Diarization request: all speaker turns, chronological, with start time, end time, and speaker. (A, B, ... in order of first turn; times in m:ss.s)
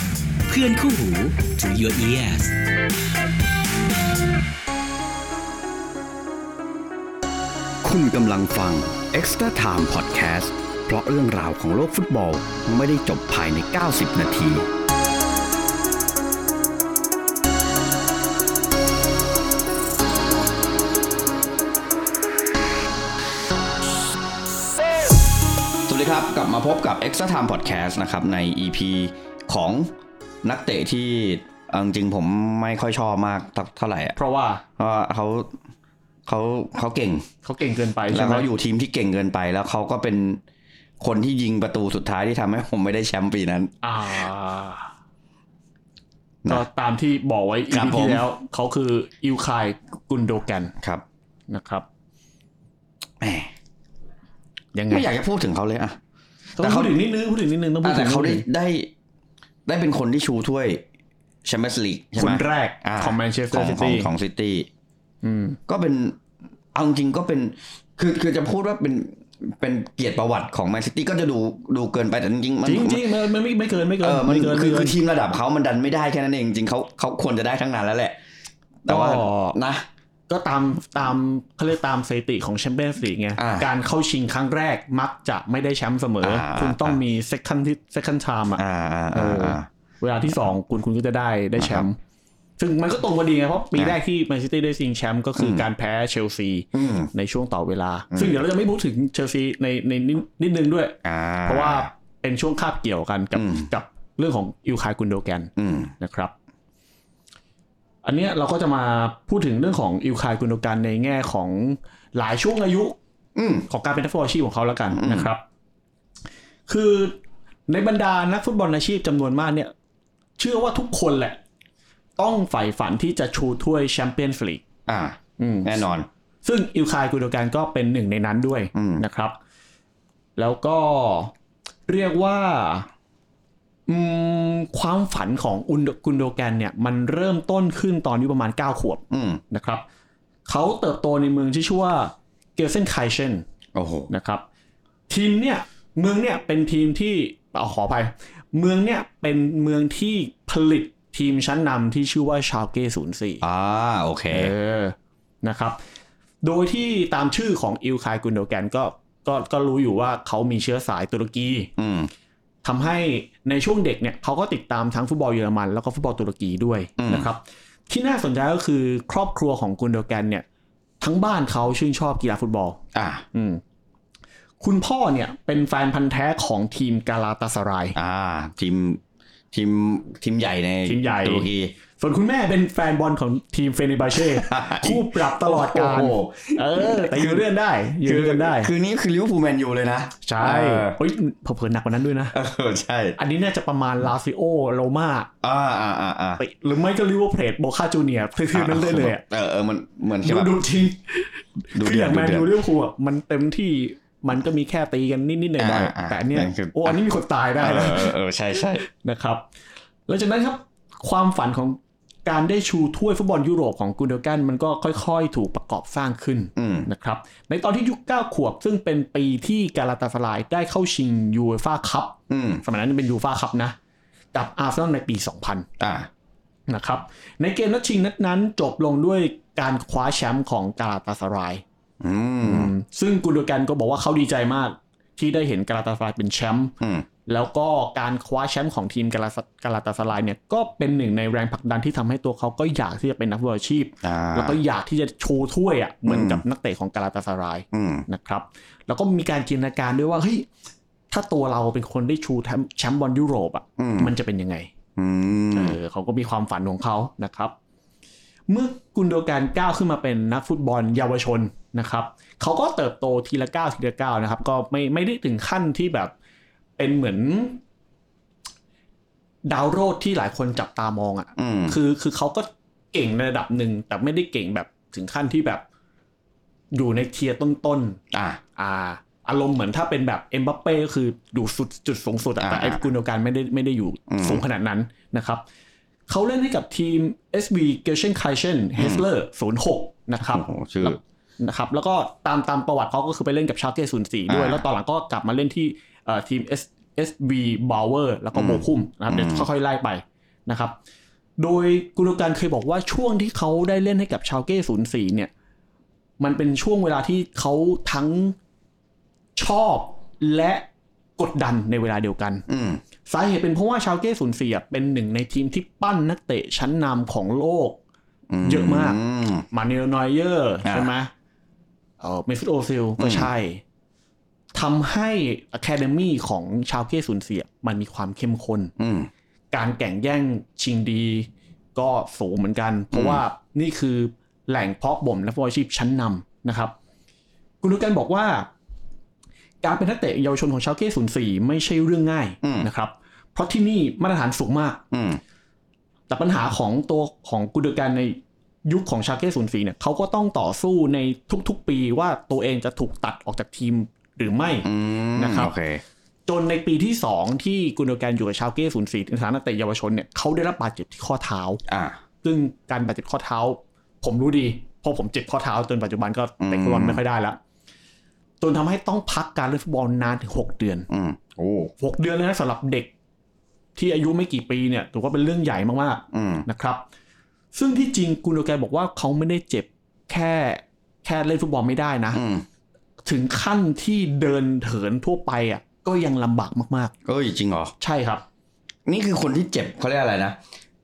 0:00.5-0:02.6 A
0:07.8-0:14.7 B
0:25.9-0:29.9 B
0:30.4-0:34.2 B
0:34.2-0:34.6 C
0:34.8-0:35.5 B
0:36.2-0:37.3 B
0:37.4-0:38.5 C
0:38.1-0:40.4 B
0:41.0-0:43.7 B
0:43.8-0:44.9 C
0:46.5-0:50.7 C
0:47.7-0:48.2 B
0:50.8-0:51.0 B
0:51.5-0:51.8 C
0:53.2-0:53.5 B
0:54.7-0:55.0 C
0:54.9-0:56.0 B
0:56.6-0:58.4 C
0:56.6-0:57.0 B
0:57.8-0:58.9 B
0:59.6-1:00.8 B
1:01.4-1:04.7 B
1:02.2-1:04.1 C
1:05.2-1:05.6 C
1:05.7-1:06.2 B
1:06.7-1:13.0 B
1:12.6-1:14.9 C
1:14.0-1:18.2 B
1:18.8-1:19.8 B
1:18.9-1:19.6 C
1:20.3-1:28.6 C
1:23.4-1:23.7 B
1:26.2-1:27.0 B
1:28.6-1:29.7 B
1:29.1-1:32.0 C
1:31.6-1:31.8 B
1:32.6-1:46.3 C
1:35.4-1:35.6 B
1:36.7-1:37.1 B
1:38.1-1:38.4 B
1:41.0-1:41.9 B
1:43.3-1:43.7 B
1:45.6-1:45.9 B
1:48.0-1:53.0 C
1:53.4-1:53.7 B
1:53.7-1:55.4 C
1:54.9-1:55.3 B
1:56.7-1:57.2 C
1:57.7-1:59.7 C
2:00.4-2:01.4 C
2:02.2-2:04.6 C
2:04.9-2:06.1 B
2:05.4-2:05.8 C
2:06.4-2:09.3 C
2:08.7-2:09.0 B
2:10.4-2:11.3 C
2:11.9-2:12.9 C
2:13.9-2:19.8 C
2:19.1-2:19.4 B
2:20.4-2:23.4 C
2:23.7-2:24.1 B
2:24.1-2:24.4 C
2:25.1-2:33.4 C
2:33.4-2:34.5 B
2:34.3-2:35.8 C
2:36.4-2:41.7 C
2:41.8-2:42.1 B
2:42.6-2:50.4 C
2:47.0-2:47.3 B
2:51.0-2:52.8 C
2:52.9-2:53.2 B
2:53.3-2:53.6 C
2:54.6-2:58.0 C
2:58.0-2:59.0 B
2:59.5-3:01.7 B
3:00.8-3:08.7 C
3:04.1-3:07.4 B
3:08.0-3:11.0 B
3:10.2-3:12.3 C
3:12.3-3:13.2 B
3:13.2-3:15.3 C
3:15.4-3:16.4 B
3:16.4-3:19.2 C
3:18.5-3:20.5 B
3:20.2-3:28.1 C
3:21.7-3:22.5 B
3:25.6-3:27.0 B
3:27.6-3:28.8 B
3:28.8-3:29.4 C
3:30.1-3:43.7 C
3:36.6-3:36.9 B
3:42.3-3:42.6 B
3:44.3-3:45.7 C
3:45.8-3:46.1 B
3:46.7-3:51.6 C
3:52.0-3:52.7 B
3:52.4-3:56.7 C
3:56.8-3:57.1 B
3:57.2-4:10.4 C
4:04.0-4:04.6 B
4:06.1-4:06.4 B
4:07.7-4:08.0 B
4:11.1-4:14.7 C
4:13.8-4:14.1 B
4:15.0-4:15.8 B
4:15.5-4:17.5 C
4:18.5-4:26.1 C
4:26.8-4:27.6 C
4:29.4-4:35.6 C
4:31.4-4:31.8 B
4:36.7-4:38.0 C
4:38.1-4:38.4 B
4:38.6-4:45.4 C
4:42.4-4:42.8 B
4:44.1-4:44.4 B
4:46.1-5:00.7 C
4:48.8-4:49.0 B
4:50.3-4:51.0 B
4:54.3-4:54.6 B
4:58.3-4:59.5 B
5:01.4-5:05.3 C
5:06.2-5:08.4 C
5:09.4-5:10.6 C
5:11.2-5:12.4 C
5:12.5-5:12.8 B
5:13.1-5:17.8 C
5:18.3-5:19.4 B
5:18.4-5:19.0 C
5:19.5-5:21.1 C
5:20.6-5:20.9 B
5:22.0-5:23.6 C
5:23.0-5:23.3 B
5:24.5-5:28.7 C
5:28.8-5:29.1 B
5:29.5-5:36.7 C
5:32.9-5:33.2 B
5:37.6-5:38.5 C
5:39.6-5:44.8 C
5:42.4-5:42.7 B
5:44.9-5:45.2 B
5:46.1-5:55.5 C
5:54.6-5:55.8 B
5:56.3-6:01.6 C
6:01.7-6:02.0 B
6:02.2-6:07.4 C
6:06.4-6:07.0 B
6:08.4-6:10.9 C
6:10.9-6:11.7 B
6:11.8-6:12.9 C
6:13.8-6:16.8 C
6:16.1-6:16.4 B
6:17.5-6:22.2 C
6:22.1-6:22.4 B
6:23.0-6:26.9 C
6:27.0-6:27.7 B
6:27.8-6:28.2 C
6:28.8-6:30.4 B